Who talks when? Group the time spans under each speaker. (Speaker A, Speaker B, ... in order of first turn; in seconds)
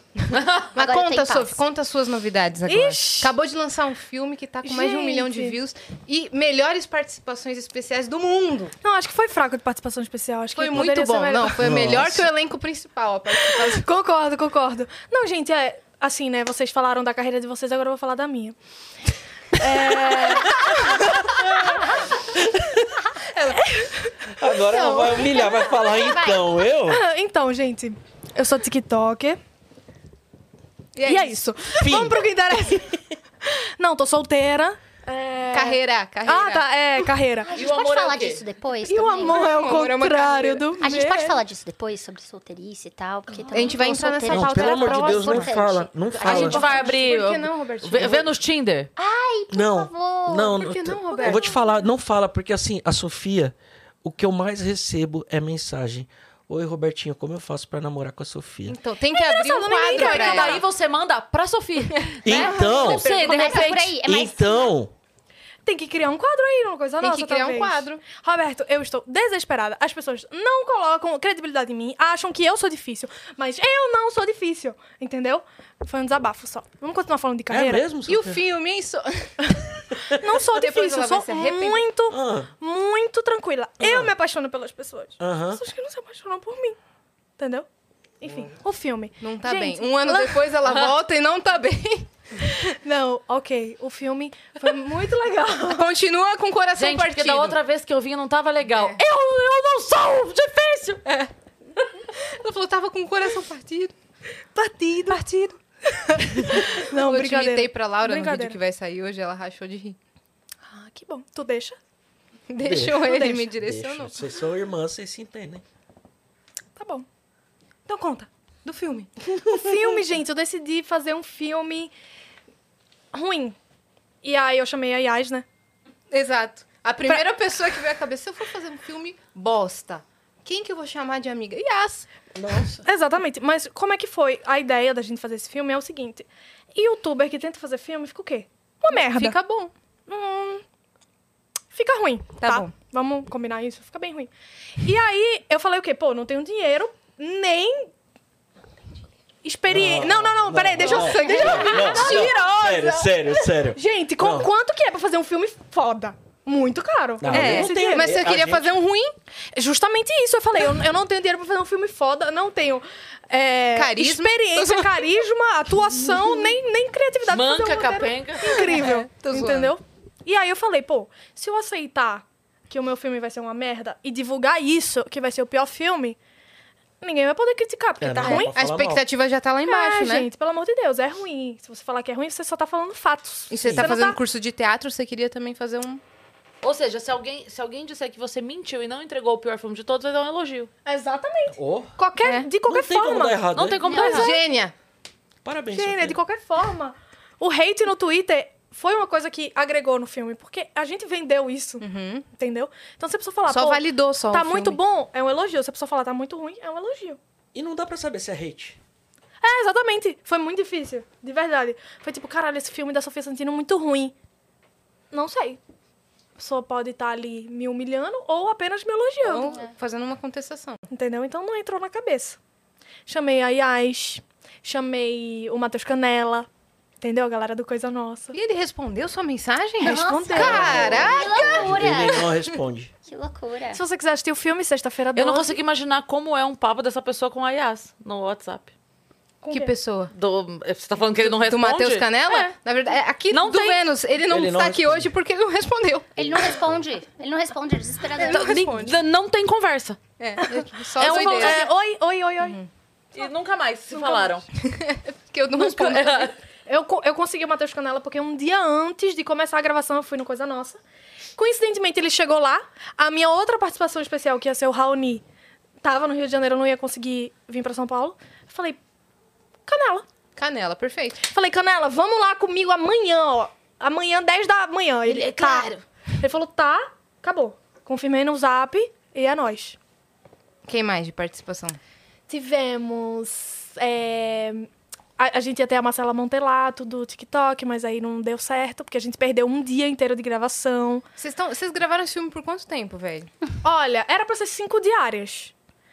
Speaker A: 0.2-8.7, 10.5-13.8, 23.3-23.7, 30.9-31.4, 35.5-36.6, 39.2-40.7, 43.5-45.5, 46.2-48.3, 50.5-51.5, 58.6-60.6, 62.0-63.7, 67.0-68.0, 78.0-79.8, 80.5-81.8, 89.2-92.6, 95.7-97.6, 98.7-99.0, 101.0-101.3, 102.2-103.9, 106.5-110.0, 112.5-114.2, 118.6-120.1, 126.1-132.1, 138.9-139.7, 142.4-142.7, 150.8-152.4, 157.2-159.1, 163.7-165.2, 166.1-166.3, 168.5-169.7, 178.2-180.3, 183.5-186.0, 192.2-192.5, 193.9-194.7, 201.8-202.3, 203.4-204.8, 219.2-220.8, 228.3-232.2, 239.5-240.1, 241.2-246.4, 250.2-251.7, 252.4-252.7, 254.6-256.3, 270.4-271.2, 280.6-281.8, 291.2-293.3
Speaker B: 0.3-0.6, 37.5-38.4, 46.2-48.9, 59.9-63.9, 96.8-101.0, 167.3-168.7, 186.6-190.7, 193.5-194.4, 235.1-238.7, 240.1-242.1, 243.3-243.9, 248.2-250.0, 251.0-251.7, 253.1-254.4, 255.6-256.4, 275.1-275.8
Speaker C: 0.7-1.6, 25.5-26.4, 37.4-39.4, 40.8-46.9, 49.0-50.6, 62.9-64.7, 193.9-194.3, 229.8-232.2, 233.1-233.8, 246.2-248.5
Speaker D: 2.6-3.3, 4.6-5.5, 8.8-12.0, 13.5-18.6, 19.6-21.1, 23.6-24.1, 24.7-25.5, 26.9-29.4, 31.0-37.5, 38.8-41.4, 43.4-43.8, 51.1-51.5, 59.1-60.6, 65.6-77.9, 80.2-86.8, 87.4-87.7, 88.2-90.5, 92.7-95.9, 104.5-108.6, 110.7-111.8, 113.0-113.4, 116.8-117.0, 117.8-118.3, 119.4-121.9, 123.1-123.5, 124.2-125.4, 132.8-139.4, 140.1-140.6, 141.7-147.9, 149.4-158.2, 159.5-176.2, 177.0-178.5, 179.6-184.2, 190.8-194.3, 195.7-207.2, 209.4-214.1, 215.1-215.6, 216.4-219.6, 220.9-222.4, 223.1-226.5, 227.0-228.3, 229.8-231.1, 233.7-235.6, 239.4-239.7, 248.2-248.9, 250.4-252.6, 253.9-254.4, 256.6-260.8, 261.4-265.2, 265.8-268.8, 269.6-270.1, 271.2-279.8, 282.3-291.0, 293.6-295.5
Speaker E: 11.6-12.3, 20.3-21.8, 22.3-22.8, 24.3-27.0, 31.8-32.2, 44.3-46.6, 49.5-58.8, 62.2-63.1, 64.0-64.9, 77.5-78.4, 82.1-82.5, 83.8-84.1, 85.2-85.6, 88.2-88.5, 112.6-115.6, 132.3-132.8, 149.7-154.5, 157.2-158.8, 178.0-179.0, 183.6-183.9, 191.6-191.9, 192.7-193.8, 195.4-196.2, 207.5-208.8, 230.3-232.9, 244.3-245.1